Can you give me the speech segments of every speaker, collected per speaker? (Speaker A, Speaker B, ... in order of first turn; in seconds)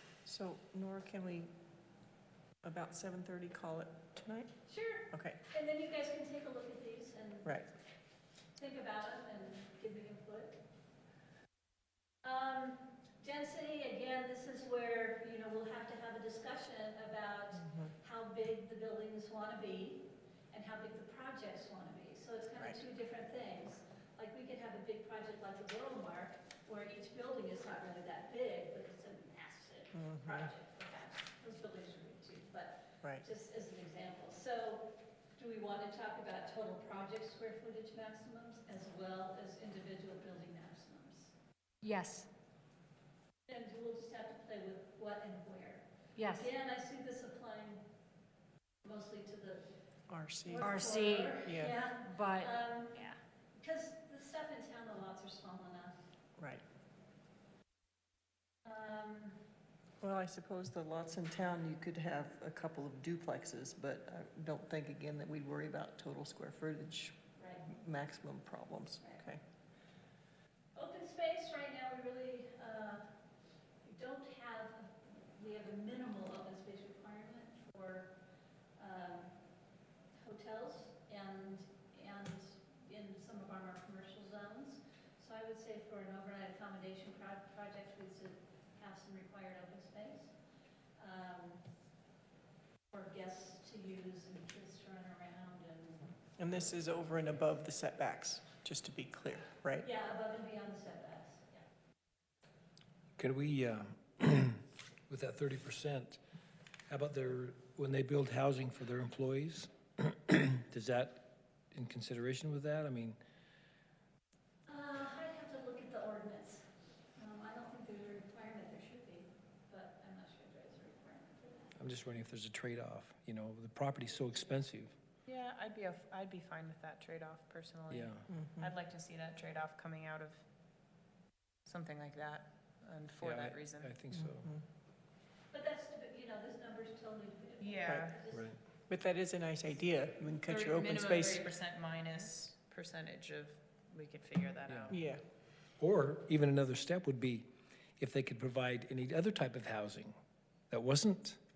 Speaker A: 0.2-1.5, 2.6-4.5, 5.1-5.4, 17.6-17.9, 30.0-30.5, 50.1-50.7, 51.4-51.8, 56.4-56.6, 60.0-69.4, 96.4-99.9, 128.3-128.7, 134.1-134.6, 138.9-141.5, 144.9-145.2
Speaker B: 4.7-7.6, 8.6-10.6, 12.2-41.3, 43.5-47.8, 48.8-49.7, 50.4-53.0, 53.6-56.0, 58.6-59.4, 67.4-67.7, 70.8-73.1, 73.8-78.2, 78.8-79.4, 80.2-90.3, 91.0-91.6, 92.9-96.1, 99.8-101.6, 114.7-121.8, 135.5-138.5
Speaker C: 41.8-42.3, 46.2-46.5, 50.6-53.2
Speaker D: 103.2-106.2, 106.9-113.2, 121.8-124.9, 127.9-128.3, 133.2-134.5, 138.3-138.6, 144.7-145.0, 145.8-147.5, 148.0-150.2, 150.7-151.4
Speaker E: 125.3-130.4, 131.7-133.9, 137.6-138.2, 140.5-145.0